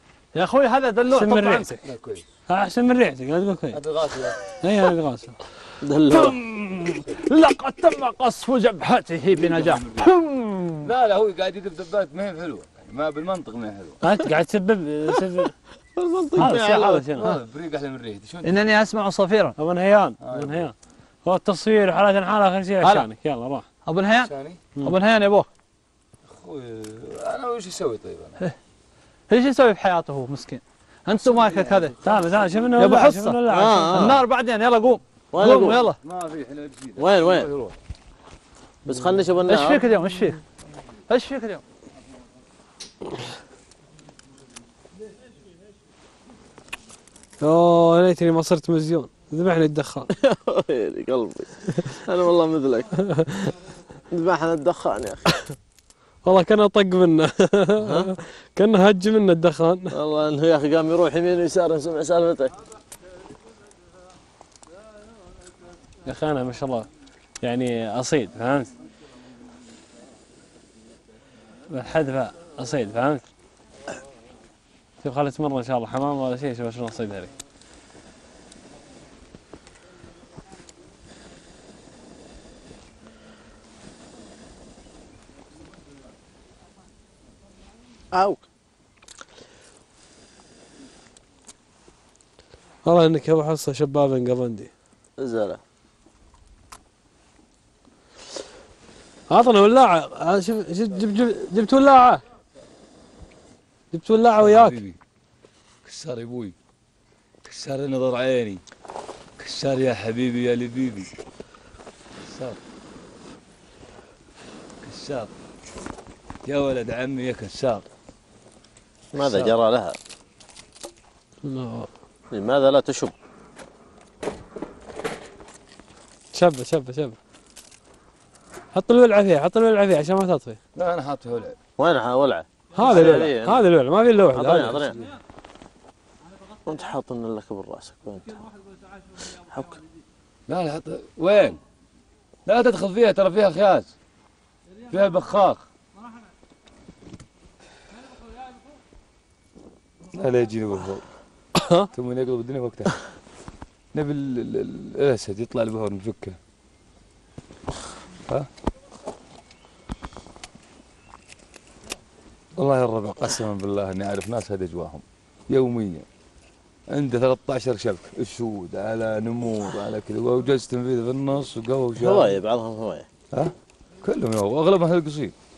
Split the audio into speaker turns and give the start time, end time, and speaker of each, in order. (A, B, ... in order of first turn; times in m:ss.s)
0:00.3-0:01.7 A
0:01.1-0:01.8 B
0:01.8-0:02.3 C
0:02.5-0:03.8 B
0:03.7-0:04.4 C
0:04.6-0:05.4 B
0:05.8-0:06.4 D
0:06.3-0:10.0 A
0:09.4-0:10.1 C
0:10.8-0:14.0 C
0:14.0-0:15.5 B
0:16.0-0:17.1 D
0:16.4-0:17.3 A
0:16.4-0:17.2 B
0:17.2-0:18.6 C
0:18.4-0:19.6 A
0:19.6-0:20.7 B
0:20.2-0:20.7 C
0:21.2-0:23.6 B
0:22.8-0:23.1 A
0:23.8-0:25.5 A
0:24.2-0:24.6 C
0:26.3-0:28.4 C
0:29.3-0:32.0 A
0:31.2-0:31.9 D
0:32.0-0:34.1 B
0:32.7-0:36.0 A
0:33.5-0:34.2 D
0:35.3-0:35.8 D
0:36.0-0:37.8 C
0:37.0-0:37.5 D
0:38.8-0:40.0 D
0:39.4-0:40.4 A
0:41.1-0:41.6 A
0:47.4-0:50.1 B
0:50.1-0:52.9 D
0:53.0-0:53.5 B
0:54.1-0:55.5 D
0:56.2-1:00.0 B
0:57.8-0:58.1 D
0:59.9-1:02.5 D
1:06.0-1:06.9 B
1:07.4-1:08.7 B
1:11.7-1:13.2 B
1:15.0-1:17.3 B
1:28.1-1:28.4 D
1:32.8-1:34.7 B
1:35.2-1:35.6 D
1:39.3-1:42.2 B
1:43.9-1:44.8 B
1:44.4-1:45.0 C
1:45.8-1:46.5 C
1:47.4-1:48.6 C
1:49.4-1:51.1 C
1:52.3-1:52.6 C
1:54.8-1:55.3 C
1:56.4-1:57.8 C
1:59.1-2:00.0 D
1:59.2-1:59.5 C
2:01.4-2:01.9 B
2:02.3-2:03.1 D
2:06.3-2:07.2 B
2:08.7-2:10.6 B
2:10.7-2:11.6 C
2:11.8-2:13.6 D
2:12.7-2:15.0 B
2:14.3-2:15.0 D
2:16.6-2:18.4 D
2:19.3-2:19.8 D
2:20.5-2:21.6 C
2:22.4-2:23.9 C
2:24.9-2:25.6 C
2:30.1-2:31.0 C
2:31.6-2:31.9 B
2:31.9-2:33.0 C
2:33.9-2:36.4 C
2:42.6-2:46.0 C
2:46.9-2:52.4 C
2:52.0-2:53.1 D
2:53.3-2:55.3 C